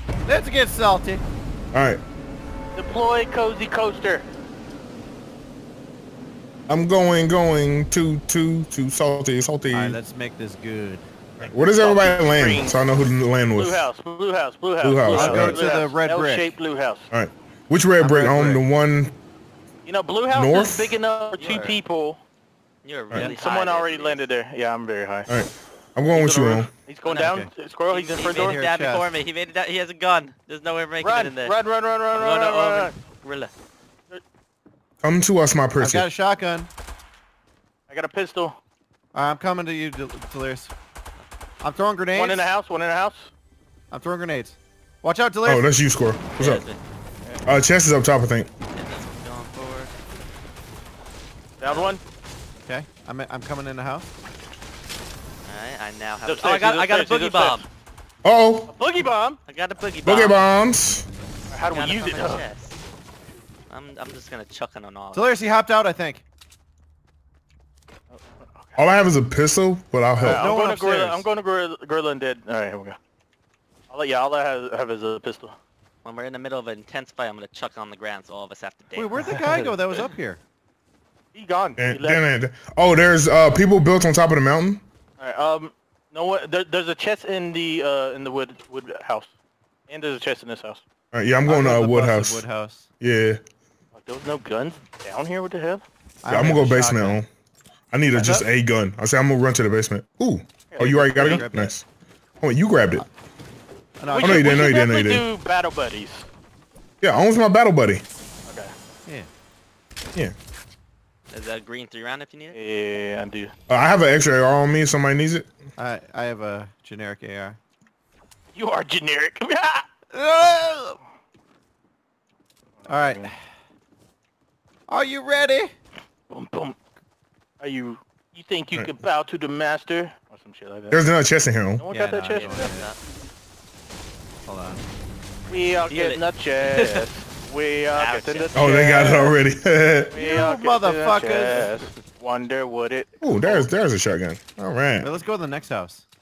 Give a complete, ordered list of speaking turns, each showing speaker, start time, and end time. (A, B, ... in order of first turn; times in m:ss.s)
0:00.2-0:01.2 A
0:01.7-0:02.0 B
0:02.8-0:04.3 C
0:06.7-0:10.0 B
0:09.7-0:11.0 A
0:11.4-0:13.9 B
0:11.7-0:12.8 C
0:13.6-0:17.1 C
0:14.8-0:15.7 B
0:15.1-0:16.6 A
0:17.1-0:19.1 B
0:18.0-0:18.6 A
0:19.8-0:22.2 C
0:20.3-0:21.0 B
0:21.4-0:21.7 D
0:21.4-0:21.7 A
0:22.8-0:24.2 D
0:23.4-0:25.3 C
0:25.3-0:26.7 B
0:26.1-0:28.6 C
0:27.0-0:33.5 D
0:27.1-0:27.5 A
0:28.3-0:29.1 A
0:31.0-0:32.9 C
0:35.0-0:36.0 B
0:35.8-0:36.7 A
0:37.9-0:38.6 C
0:39.1-0:40.7 A
0:41.6-0:42.5 A
0:42.1-0:43.3 C
0:43.9-0:45.7 A
0:45.4-0:46.6 B
0:46.4-0:46.8 D
0:47.4-0:48.5 B
0:48.7-0:49.9 D
0:51.6-0:52.0 C
0:51.6-0:52.0 D
0:52.6-0:54.1 A
0:55.4-0:57.6 D
0:56.2-0:57.6 C
0:58.2-0:58.7 B
0:58.7-0:59.4 C
0:59.4-1:00.4 D
1:00.0-1:01.1 B
1:01.5-1:02.4 C
1:01.7-1:02.8 D
1:03.7-1:05.4 D
1:05.1-1:06.2 A
1:08.1-1:08.8 C
1:08.8-1:10.5 B
1:10.2-1:11.2 A
1:10.2-1:13.0 C
1:13.9-1:15.6 C
1:16.0-1:19.3 D
1:19.0-1:20.4 A
1:19.3-1:19.7 C
1:21.3-1:22.2 C
1:21.8-1:24.8 B
1:25.2-1:29.3 C
1:29.9-1:30.8 C
1:31.1-1:32.4 B
1:31.4-1:32.9 A
1:33.0-1:33.4 B
1:33.9-1:35.8 C
1:36.2-1:37.2 A
1:36.3-1:37.3 B
1:37.9-1:41.8 B
1:38.1-1:38.4 A
1:40.7-1:41.5 C
1:40.8-1:41.7 A
1:42.4-1:43.0 B
1:44.0-1:44.6 A
1:44.1-1:46.3 C
1:44.2-1:45.2 B
1:47.0-1:48.0 B
1:48.4-1:48.7 C
1:51.3-1:52.6 D
1:52.5-1:53.5 C
1:53.7-1:55.5 B
1:55.8-1:57.6 A
1:58.5-1:59.8 C
2:00.1-2:01.0 A
2:02.8-2:03.3 C
2:02.9-2:03.4 A
2:04.9-2:05.7 A
2:06.3-2:06.8 C
2:07.6-2:11.0 C
2:10.9-2:11.8 B
2:11.8-2:12.7 C
2:11.9-2:12.9 A
2:12.3-2:13.0 D
2:14.4-2:14.8 A
2:15.5-2:19.4 C
2:15.8-2:17.1 D
2:17.9-2:18.6 D
2:18.5-2:20.1 B
2:20.1-2:23.7 C
2:20.1-2:22.0 A
2:23.2-2:25.1 B
2:25.0-2:26.0 A